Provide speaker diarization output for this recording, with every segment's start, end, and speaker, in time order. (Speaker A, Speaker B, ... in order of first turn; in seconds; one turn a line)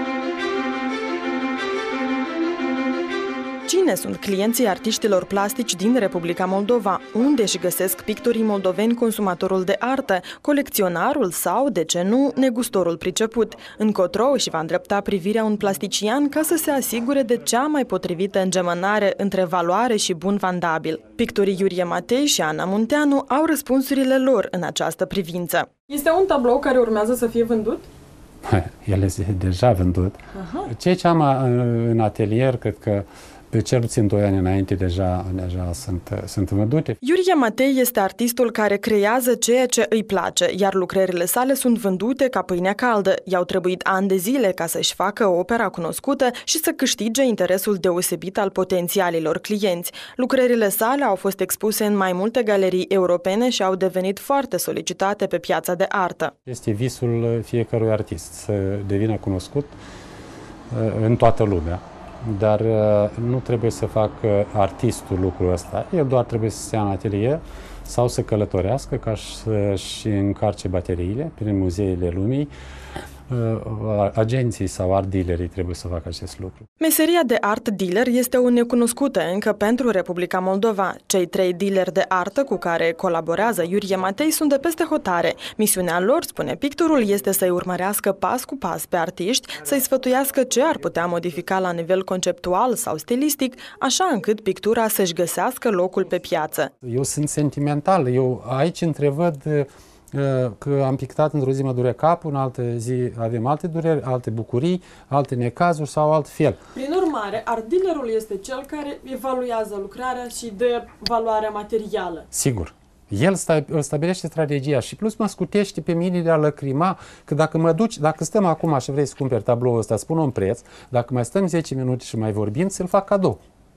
Speaker A: 3.7-27.9
Speaker B: 28.4-37.0
Speaker A: 30.3-30.7
Speaker A: 37.0-56.3
Speaker B: 56.5-59.7
Speaker B: 60.7-72.5
Speaker B: 73.3-76.6
Speaker A: 76.8-96.7
Speaker B: 96.8-106.6
Speaker A: 106.7-112.3
Speaker B: 112.3-123.4